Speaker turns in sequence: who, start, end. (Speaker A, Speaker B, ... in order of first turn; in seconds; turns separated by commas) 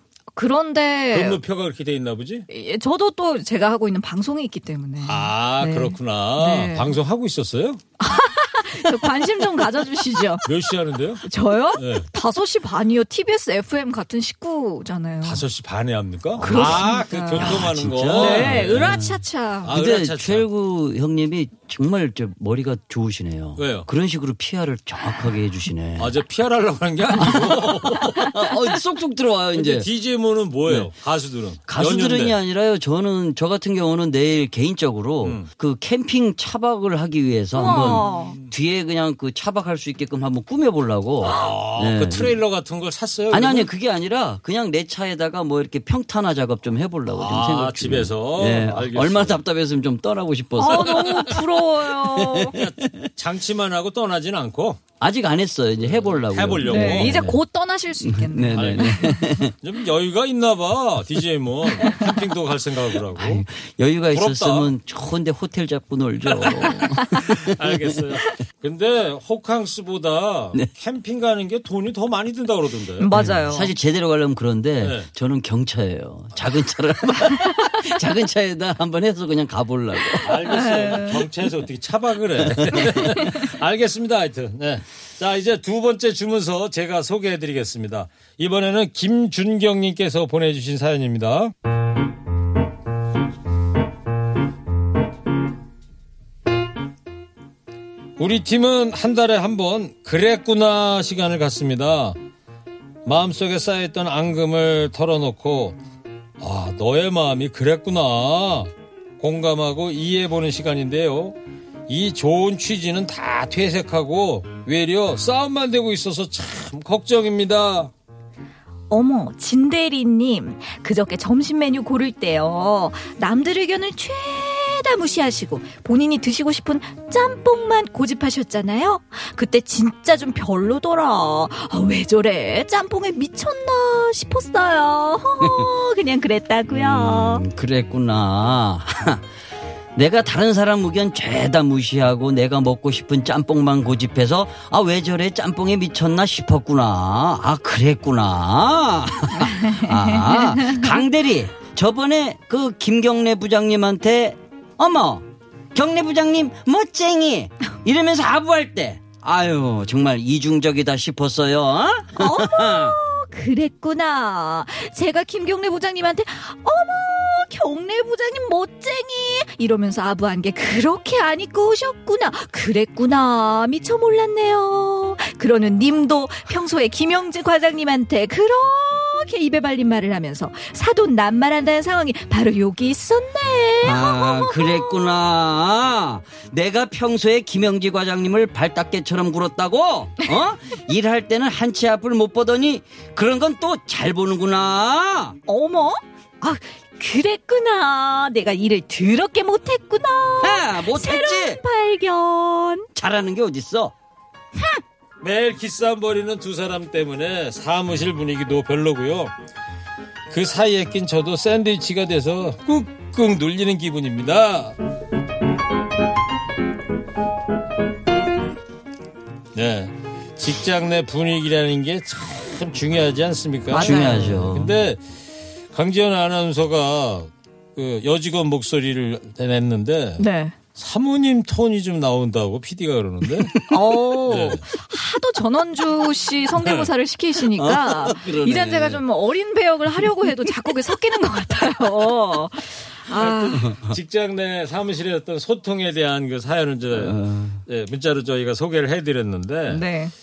Speaker A: 0.3-1.4, Speaker B: 1.1-2.5, Speaker A: 2.5-7.0, Speaker B: 5.0-7.8, Speaker A: 8.0-10.5, Speaker B: 10.4-12.1, Speaker A: 11.2-15.4, Speaker B: 15.2-19.0, Speaker C: 16.4-26.2, Speaker A: 16.4-17.6, Speaker A: 18.1-19.7, Speaker B: 19.6-20.5, Speaker B: 23.6-23.9, Speaker B: 26.0-28.2, Speaker C: 27.2-29.9, Speaker B: 29.5-32.4, Speaker C: 31.7-42.4, Speaker B: 35.2-35.5, Speaker A: 37.5-38.4, Speaker B: 37.7-38.4, Speaker B: 41.2-43.7, Speaker C: 43.3-51.4, Speaker B: 47.1-49.4, Speaker A: 50.6-52.6, Speaker B: 50.8-51.1, Speaker C: 52.0-53.1, Speaker B: 52.6-54.8, Speaker C: 55.0-57.4, Speaker B: 55.8-57.3, Speaker A: 56.6-59.2, Speaker C: 58.0-59.5, Speaker B: 58.5-63.5, Speaker C: 63.1-68.0, Speaker B: 64.1-64.7, Speaker B: 66.3-73.1, Speaker A: 73.0-73.7, Speaker C: 73.1-80.4, Speaker B: 74.8-75.1, Speaker B: 80.2-91.5, Speaker A: 80.5-81.2, Speaker C: 82.4-83.2, Speaker B: 98.2-102.2, Speaker B: 103.0-105.8, Speaker B: 106.4-111.4, Speaker B: 111.9-117.9, Speaker A: 118.9-137.4, Speaker C: 135.4-135.7, Speaker C: 136.7-139.2, Speaker C: 139.9-163.0, Speaker A: 149.7-150.9, Speaker A: 162.2-185.1, Speaker C: 183.8-195.4, Speaker A: 195.5-202.9, Speaker C: 200.4-201.6, Speaker C: 202.9-203.9, Speaker B: 205.2-209.3, Speaker B: 210.3-214.8, Speaker B: 219.5-225.0, Speaker A: 223.7-224.3, Speaker C: 223.7-224.8, Speaker B: 225.7-233.7, Speaker A: 230.2-230.6, Speaker A: 233.7-243.7, Speaker B: 234.3-234.6, Speaker B: 236.6-236.9, Speaker C: 237.5-239.0, Speaker B: 243.1-249.8, Speaker C: 243.5-244.0, Speaker C: 246.9-247.6, Speaker A: 249.7-250.1